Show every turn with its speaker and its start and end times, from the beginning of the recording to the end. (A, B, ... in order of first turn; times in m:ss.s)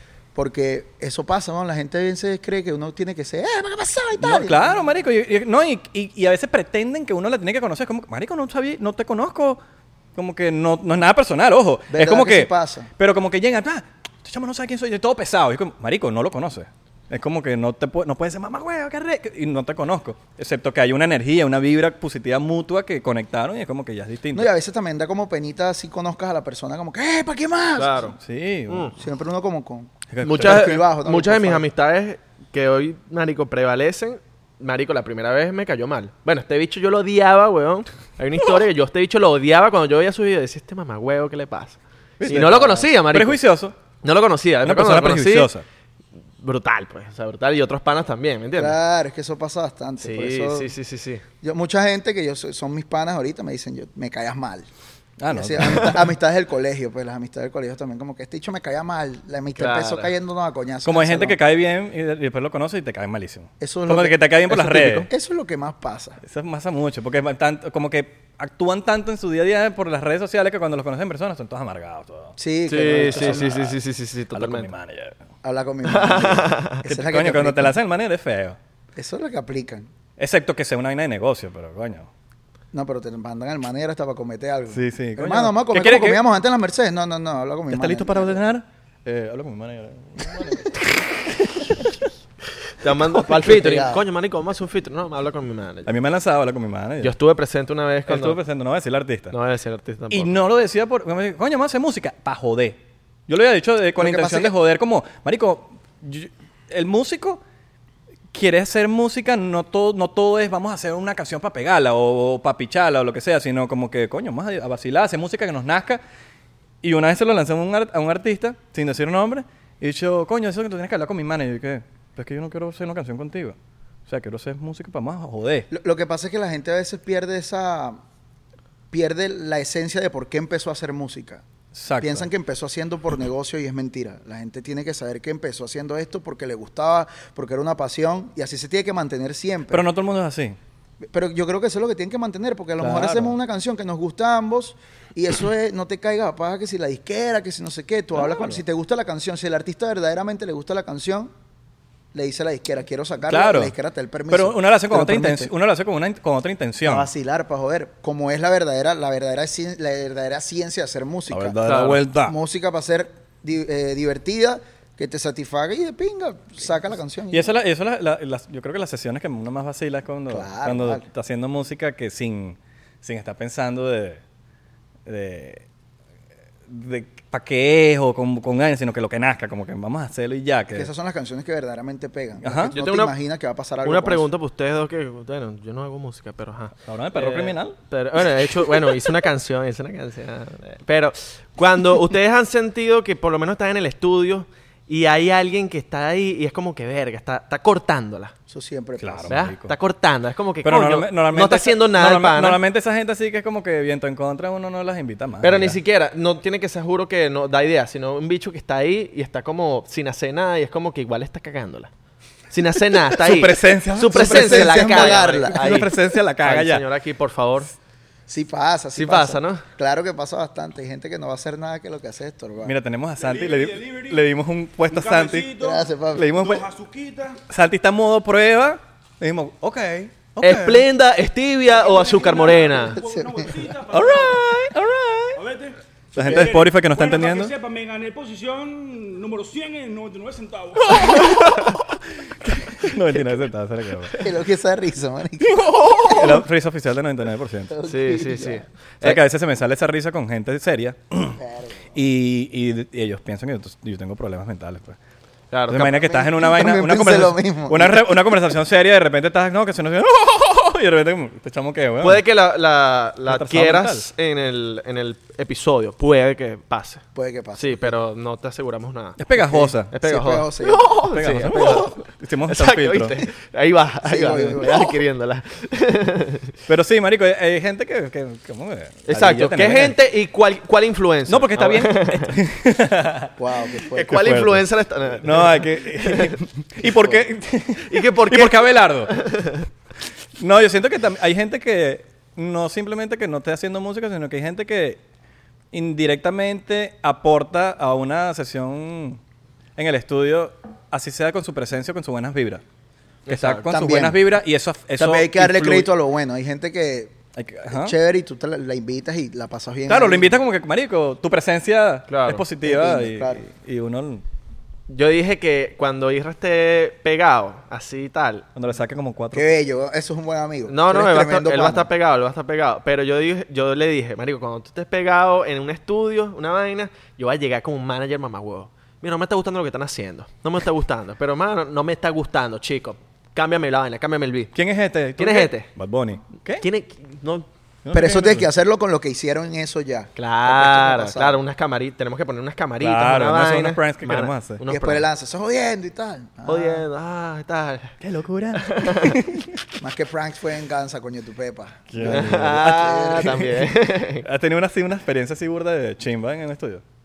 0:00.4-0:04.8 A
0:04.2-0:09.6 B
0:10.2-0:24.5 B
0:11.9-0:12.9 A
0:24.3-0:28.2 A
0:27.8-0:28.2 C
0:28.2-0:29.0 B
0:28.7-0:28.9 C
0:29.0-0:31.7 A
0:30.1-0:30.8 B
0:30.2-0:43.4 C
0:42.2-0:43.8 B
0:44.0-0:45.5 C
0:44.6-0:45.6 B
0:46.4-0:48.8 C
0:48.6-0:50.7 A
0:50.0-0:51.2 C
0:51.4-0:54.7 A
0:55.2-0:56.0 B
0:55.3-1:01.4 A
0:59.6-1:00.1 C
1:00.8-1:05.1 B
1:03.6-1:06.2 A
1:06.2-1:12.4 B
1:12.4-1:13.7 A
1:12.7-1:14.7 C
1:13.0-1:13.8 B
1:14.3-1:15.2 B
1:15.4-1:17.8 A
1:15.9-1:16.8 C
1:16.9-1:18.6 B
1:19.0-1:19.9 A
1:20.2-1:22.1 B
1:22.7-1:28.5 A
1:24.7-1:26.2 B
1:27.7-1:30.8 B
1:32.8-1:35.9 C
1:33.3-1:34.0 A
1:35.9-1:37.1 B
1:37.0-1:38.4 C
1:38.1-1:39.4 B
1:39.3-1:40.3 C
1:40.1-1:47.4 B
1:44.0-1:44.5 A
1:48.3-1:56.0 B
1:56.8-2:03.6 B
2:04.1-2:05.7 B
2:05.7-2:08.0 A
2:08.9-2:11.4 A
2:11.7-2:12.3 B
2:12.0-2:19.8 A
2:19.7-2:20.6 B
2:21.1-2:31.3 A
2:22.8-2:23.4 B
2:28.3-2:28.6 B
2:32.1-2:35.5 A
2:33.3-2:33.7 B
2:34.3-2:37.1 B
2:36.8-2:47.5 A
2:41.3-2:42.4 B
2:41.6-2:42.0 C
2:47.3-2:54.2 B
2:50.3-2:51.0 A
2:55.1-2:55.6 B
2:56.7-3:00.9 B
3:00.7-3:04.3 A
3:02.4-3:02.8 B
3:02.7-3:03.1 C
3:03.8-3:18.3 C
3:06.8-3:07.8 B
3:18.5-3:19.3 A
3:19.0-3:19.7 B
3:19.3-3:22.6 C
3:20.6-3:25.8 B
3:25.4-3:31.9 C
3:32.5-3:37.7 C
3:33.1-3:36.8 B
3:34.1-3:35.8 A
3:38.3-3:42.7 A
3:39.0-3:39.6 C
3:42.6-3:45.5 B
3:43.2-3:44.2 D
3:44.9-3:47.4 D
3:45.6-3:46.4 A
3:46.2-3:46.6 B
3:47.5-3:50.8 B
3:50.4-3:53.0 C
3:51.7-3:54.5 D
3:53.0-3:53.6 A
3:53.9-3:55.4 B
3:55.4-4:01.4 D
3:56.1-3:57.6 B
3:56.2-3:56.6 A
4:00.8-4:04.2 B
4:04.2-4:06.4 A
4:05.5-4:07.7 B
4:07.7-4:08.6 A
4:07.9-4:09.2 C
4:09.0-4:11.4 B
4:11.4-4:11.9 A
4:11.9-4:15.0 B
4:15.5-4:16.0 C
4:15.7-4:22.2 B
4:15.9-4:18.3 A
4:22.0-4:27.0 C
4:23.3-4:24.1 B
4:27.1-4:28.0 A
4:27.6-4:36.5 C
4:29.2-4:29.9 B
4:29.4-4:31.0 A
4:31.1-4:33.2 B
4:34.0-4:35.0 A
4:36.7-4:40.0 B
4:39.1-4:42.4 C
4:41.3-4:43.3 B
4:43.4-4:44.2 A
4:43.9-4:46.4 C
4:44.1-4:44.7 B
4:45.2-4:49.5 B
4:47.8-4:49.6 C
4:50.4-4:55.0 B
4:55.7-4:59.2 B
4:59.8-5:02.6 B
5:03.3-5:03.7 C
5:03.3-5:05.9 B
5:03.6-5:04.2 A
5:05.0-5:07.2 A
5:07.4-5:08.0 B
5:07.7-5:10.4 A
5:09.9-5:14.2 B
5:12.1-5:12.4 C
5:12.6-5:13.4 A
5:14.9-5:18.5 C
5:18.6-5:19.5 B
5:19.3-5:21.9 A
5:20.7-5:34.5 C
5:34.5-5:36.7 B
5:35.2-5:35.7 C
5:36.6-5:37.5 C
5:37.8-5:38.5 B
5:37.9-5:41.4 A
5:40.2-5:45.1 C
5:42.8-5:44.6 B
5:44.7-5:46.9 A
5:46.5-5:48.0 C
5:48.0-5:49.5 B
5:48.6-5:49.2 C
5:49.8-5:53.5 A
5:51.9-5:53.7 B
5:52.0-5:54.2 C
5:54.2-5:56.8 B